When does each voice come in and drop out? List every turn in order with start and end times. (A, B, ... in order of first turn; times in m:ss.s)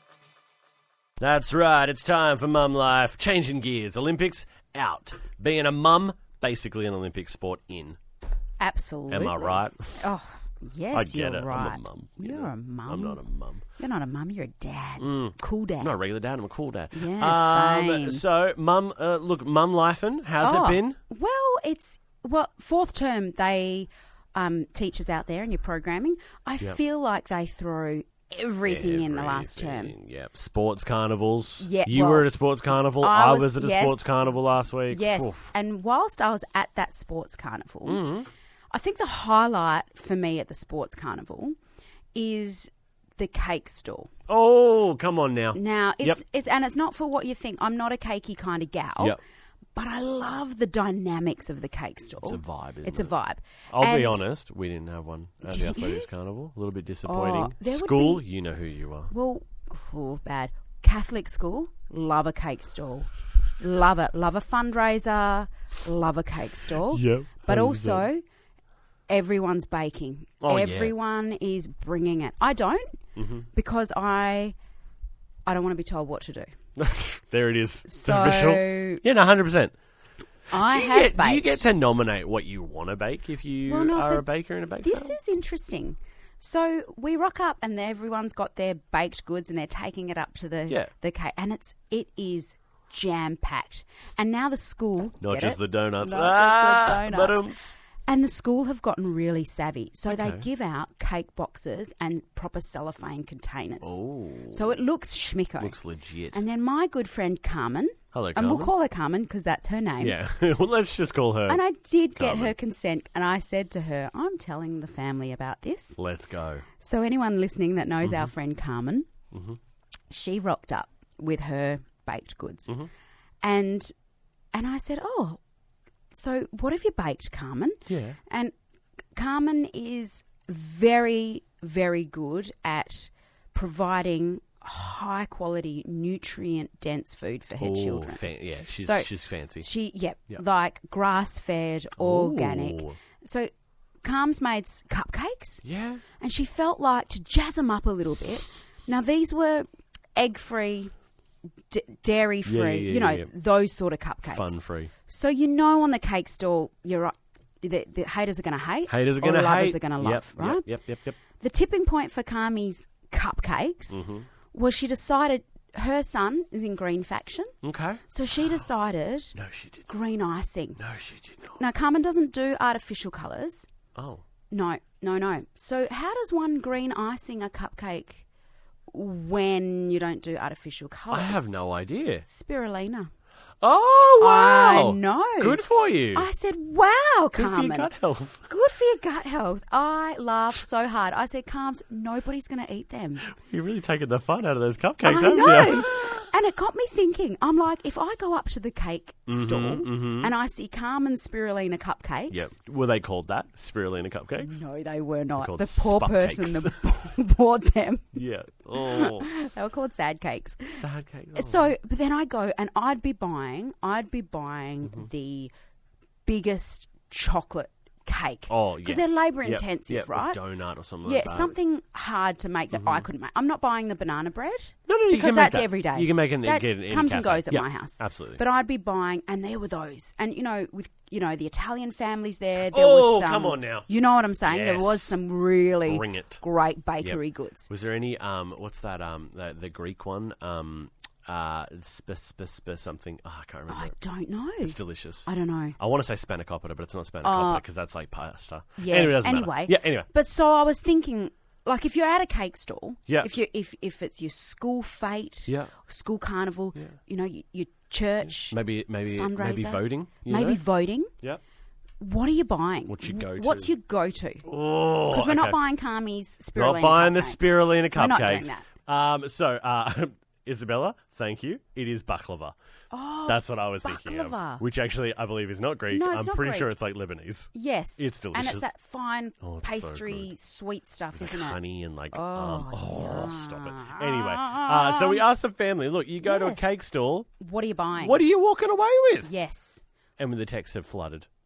0:01.2-0:08.0 A
0:08.6-0:15.9 B
0:09.1-0:10.1 A
0:10.9-0:13.6 A
0:15.0-0:21.0 A
0:16.9-0:18.2 B
0:20.4-0:29.9 B
0:28.6-0:35.5 A
0:31.6-0:34.1 B
0:34.9-0:38.0 B
0:37.8-0:38.3 A
0:38.7-0:41.5 B
0:42.1-0:44.1 B
0:44.3-0:46.2 A
0:45.5-0:49.2 B
0:49.7-0:54.2 B
0:52.2-0:53.1 A
0:53.7-0:59.1 A
0:55.4-0:56.1 B
0:57.0-0:58.2 B
0:59.1-1:08.2 B
1:06.9-1:08.1 A
1:09.1-1:13.0 B
1:10.4-1:10.9 A
1:13.2-1:13.5 A
1:13.5-1:14.6 B
1:15.4-1:16.5 B
1:16.8-1:19.7 A
1:17.9-1:19.0 B
1:20.5-1:21.6 B
1:20.5-1:25.2 A
1:23.6-1:37.5 B
1:35.2-1:37.8 A
1:38.0-1:45.8 B
1:40.1-1:40.4 A
1:43.8-1:44.8 A
1:45.6-1:46.4 A
1:46.3-1:50.2 B
1:48.1-1:48.7 A
1:50.0-1:51.6 A
1:51.5-1:56.0 B
1:52.1-1:52.5 A
1:56.0-1:56.6 A
1:56.8-1:59.1 B
1:58.0-1:58.3 A
1:59.3-1:59.6 A
2:00.1-2:02.7 B
2:03.4-2:03.9 B
2:04.5-2:05.4 B
2:06.1-2:08.5 B
2:07.8-2:08.2 A
2:09.1-2:18.2 B
2:17.6-2:19.7 A
2:18.8-2:23.5 B
2:22.0-2:23.0 A
2:24.0-2:25.6 B
2:25.6-2:26.0 A
2:26.2-2:30.9 B
2:31.7-2:40.7 B
2:32.4-2:33.3 A
2:34.2-2:34.9 A
2:38.9-2:41.2 A
2:41.4-2:47.5 B
2:43.9-2:44.3 A
2:47.6-2:48.6 A
2:48.1-2:49.4 B
2:49.3-2:49.9 A
2:49.9-2:50.8 B
2:50.8-2:51.6 A
2:51.6-2:53.7 B
2:53.9-2:54.2 A
2:54.5-2:58.2 B
2:58.9-3:01.5 B
3:01.1-3:02.2 A
3:02.2-3:03.1 B
3:03.6-3:06.3 A
3:04.2-3:07.9 B
3:07.3-3:08.4 A
3:08.5-3:13.3 B
3:13.2-3:16.2 A
3:15.0-3:22.5 B
3:19.3-3:20.3 A
3:22.3-3:24.6 A
3:24.4-3:28.2 B
3:25.3-3:26.8 A
3:28.1-3:29.3 A
3:28.7-3:35.5 B
3:30.6-3:31.7 A
3:36.2-3:40.4 B
3:38.5-3:41.5 A
3:41.0-3:57.7 B
3:42.7-3:43.1 A
3:44.9-3:48.4 A
3:52.5-3:53.9 A
3:54.4-3:55.2 A
3:55.8-3:56.4 A
3:57.0-4:03.9 A
4:03.7-4:05.8 B
4:04.6-4:10.1 A
4:07.2-4:07.6 B
4:08.8-4:21.1 B
4:15.5-4:15.7 A
4:18.2-4:20.6 A
4:22.0-4:24.5 B
4:22.9-4:23.7 A
4:24.4-4:25.6 A
4:25.1-4:28.7 B
4:26.5-4:32.5 A
4:32.9-4:34.6 B
4:33.2-4:38.7 A
4:35.9-4:36.7 B
4:37.5-4:41.6 B
4:39.4-4:40.3 A
4:41.1-4:47.3 A
4:42.1-4:45.3 B
4:46.2-4:46.8 B
4:47.4-4:48.2 B
4:47.9-4:49.3 A
4:49.2-4:49.8 B
4:50.2-4:51.2 A